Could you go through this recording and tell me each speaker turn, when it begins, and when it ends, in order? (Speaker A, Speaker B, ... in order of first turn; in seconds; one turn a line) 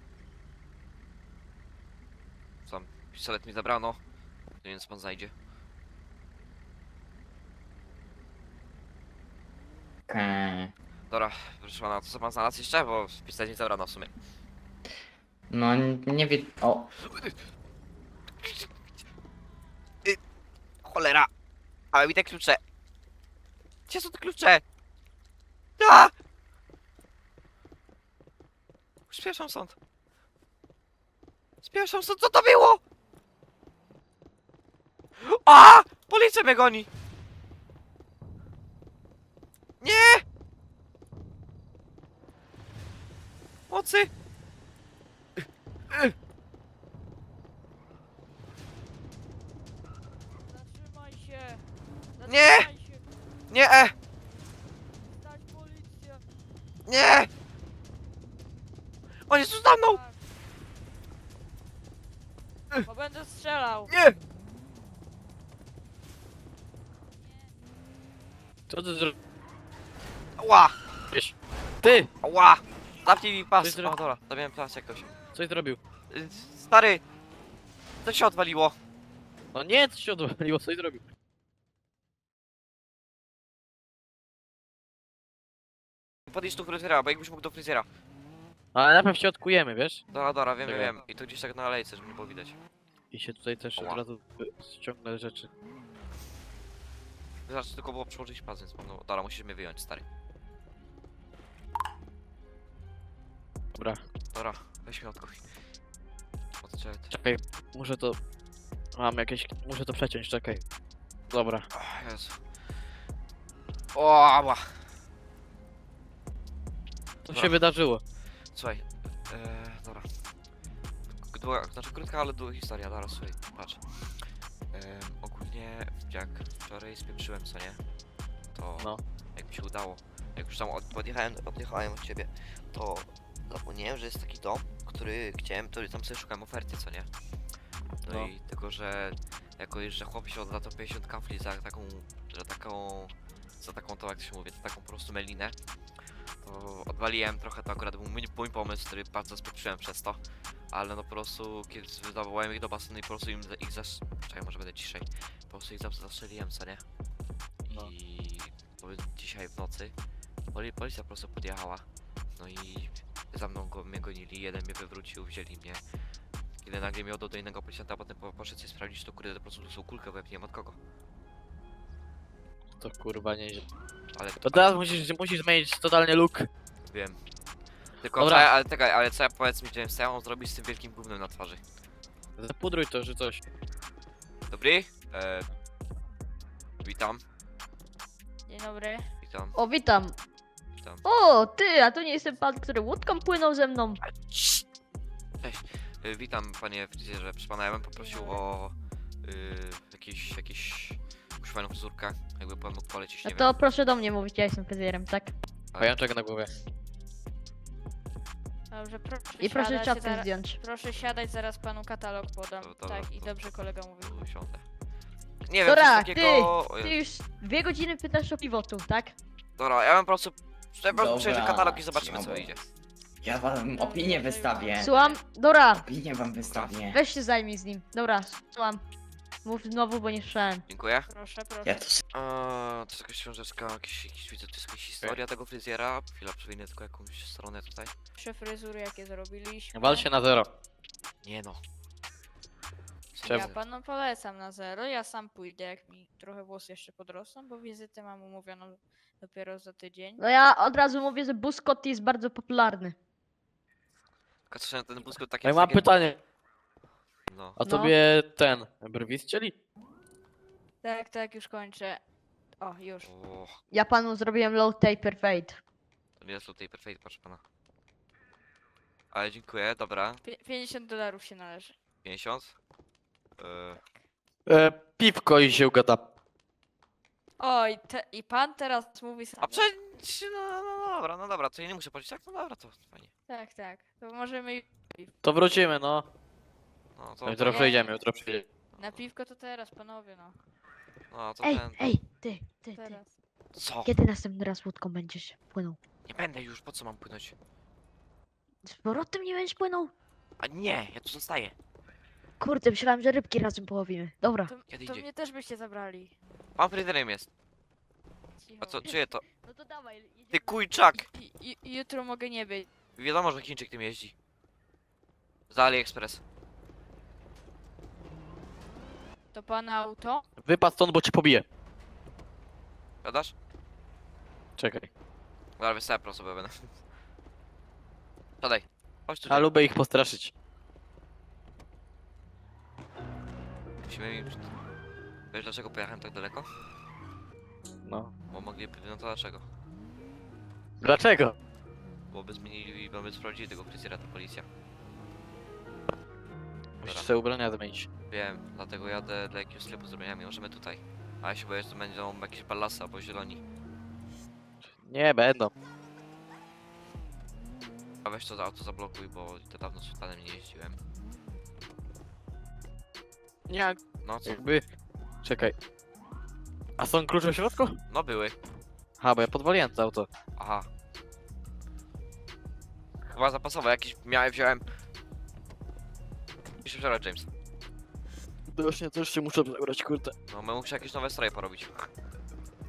Speaker A: 2.7-4.0
Speaker A: 4.6-5.3
Speaker B: 10.1-10.7
Speaker A: 11.1-14.1
Speaker B: 15.5-16.9
Speaker A: 18.4-18.7
Speaker A: 20.8-21.3
Speaker A: 21.9-22.6
Speaker A: 23.9-24.6
Speaker A: 25.8-26.1
Speaker A: 29.1-29.8
Speaker A: 31.6-32.8
Speaker A: 35.2-36.9
Speaker A: 39.8-40.2
Speaker A: 43.7-44.1
Speaker C: 50.5-51.6
Speaker C: 52.2-53.0
Speaker A: 52.3-52.7
Speaker A: 53.5-53.9
Speaker C: 55.2-56.2
Speaker A: 56.9-57.3
Speaker A: 59.3-60.0
Speaker C: 59.8-60.2
Speaker C: 62.9-63.9
Speaker A: 63.9-64.2
Speaker C: 67.2-67.5
Speaker D: 68.7-69.2
Speaker A: 70.4-70.8
Speaker D: 71.1-72.1
Speaker A: 72.2-75.1
Speaker D: 73.6-74.0
Speaker D: 75.3-75.8
Speaker A: 76.1-77.0
Speaker A: 78.0-78.8
Speaker D: 79.5-81.0
Speaker A: 86.3-87.9
Speaker D: 88.7-90.0
Speaker A: 90.1-92.6
Speaker D: 90.6-91.0
Speaker D: 93.1-95.5
Speaker A: 97.5-100.0
Speaker D: 103.8-104.0
Speaker A: 104.3-105.4
Speaker A: 106.6-107.1
Speaker D: 107.1-108.2
Speaker D: 109.0-110.6
Speaker D: 111.3-111.7
Speaker A: 111.7-112.4
Speaker A: 113.9-114.8
Speaker D: 117.2-118.0
Speaker A: 117.3-117.6
Speaker A: 118.5-120.1
Speaker A: 121.3-123.8
Speaker A: 124.7-127.8
Speaker A: 128.6-137.1
Speaker A: 138.0-145.6
Speaker D: 138.1-138.3
Speaker A: 146.4-150.2
Speaker A: 150.7-156.8
Speaker A: 157.7-159.9
Speaker A: 160.5-161.9
Speaker A: 162.4-165.8
Speaker A: 166.6-170.8
Speaker D: 172.8-173.7
Speaker A: 174.1-174.8
Speaker D: 174.4-176.5
Speaker A: 176.9-177.2
Speaker A: 178.0-181.6
Speaker D: 178.2-178.5
Speaker D: 182.4-183.4
Speaker A: 184.5-185.5
Speaker A: 186.8-187.2
Speaker C: 188.5-189.1
Speaker A: 189.2-189.6
Speaker E: 189.6-190.2
Speaker E: 191.0-194.0
Speaker A: 194.0-194.7
Speaker A: 195.4-203.6
Speaker C: 198.0-198.4
Speaker E: 203.2-205.3
Speaker D: 205.8-206.5
Speaker C: 208.7-214.2
Speaker E: 209.4-210.6
Speaker A: 212.6-214.6
Speaker A: 215.5-217.0
Speaker E: 215.6-219.2
Speaker A: 219.6-222.6
Speaker B: 220.9-222.6
Speaker B: 223.2-225.0
Speaker C: 223.8-225.2
Speaker E: 224.8-225.9
Speaker B: 225.7-227.0
Speaker A: 226.4-226.8
Speaker E: 226.9-228.8
Speaker E: 229.4-230.7
Speaker A: 230.7-231.1
Speaker C: 231.1-231.8
Speaker B: 231.6-232.0
Speaker A: 232.1-237.9
Speaker C: 238.2-240.1
Speaker D: 239.7-240.5
Speaker A: 241.2-241.6
Speaker A: 243.2-243.6
Speaker D: 243.2-243.5
Speaker C: 243.2-250.2
Speaker E: 250.2-253.0
Speaker A: 254.5-255.9
Speaker D: 255.4-256.2
Speaker A: 257.3-257.6
Speaker D: 257.6-259.6
Speaker E: 257.6-257.9
Speaker C: 260.8-262.0
Speaker C: 262.6-263.1
Speaker A: 263.0-263.6
Speaker E: 263.7-265.6
Speaker A: 266.2-267.4
Speaker A: 269.1-270.2
Speaker C: 270.2-271.8
Speaker A: 272.0-272.6
Speaker A: 273.4-273.8
Speaker D: 274.5-276.1
Speaker C: 277.4-279.7
Speaker A: 279.4-283.1
Speaker C: 283.3-285.1
Speaker D: 285.2-286.1
Speaker A: 287.0-287.8
Speaker D: 287.2-288.4
Speaker C: 287.5-287.9
Speaker C: 288.8-290.4
Speaker A: 291.1-291.8
Speaker E: 291.4-293.0
Speaker C: 292.8-293.1
Speaker A: 293.6-293.9
Speaker E: 293.9-295.8
Speaker A: 296.1-297.4
Speaker E: 298.7-299.9
Speaker A: 300.4-301.6
Speaker E: 302.4-304.5
Speaker C: 304.5-306.1
Speaker A: 304.7-305.1
Speaker A: 306.6-307.3
Speaker C: 308.4-309.0
Speaker A: 308.6-309.2
Speaker E: 308.8-310.9
Speaker A: 310.3-311.1
Speaker C: 310.9-312.7
Speaker A: 313.0-314.1
Speaker A: 315.5-316.2
Speaker C: 319.3-320.2
Speaker D: 320.4-321.5
Speaker A: 323.0-323.3
Speaker D: 324.6-324.9
Speaker A: 325.6-326.7
Speaker A: 328.4-329.5
Speaker D: 329.3-330.3
Speaker A: 333.9-334.5
Speaker A: 335.3-336.5
Speaker D: 337.9-338.1
Speaker A: 338.3-339.4
Speaker D: 340.8-341.4
Speaker A: 342.1-344.5
Speaker D: 346.8-347.9
Speaker A: 348.1-353.4
Speaker D: 354.7-355.5
Speaker A: 358.0-360.8
Speaker D: 363.5-364.6
Speaker A: 364.0-364.4
Speaker D: 365.2-365.6
Speaker D: 366.8-367.8
Speaker A: 367.9-368.4
Speaker D: 369.0-370.1
Speaker A: 370.4-370.7
Speaker A: 373.1-374.6
Speaker A: 376.6-377.3
Speaker D: 378.5-380.1
Speaker A: 380.3-381.9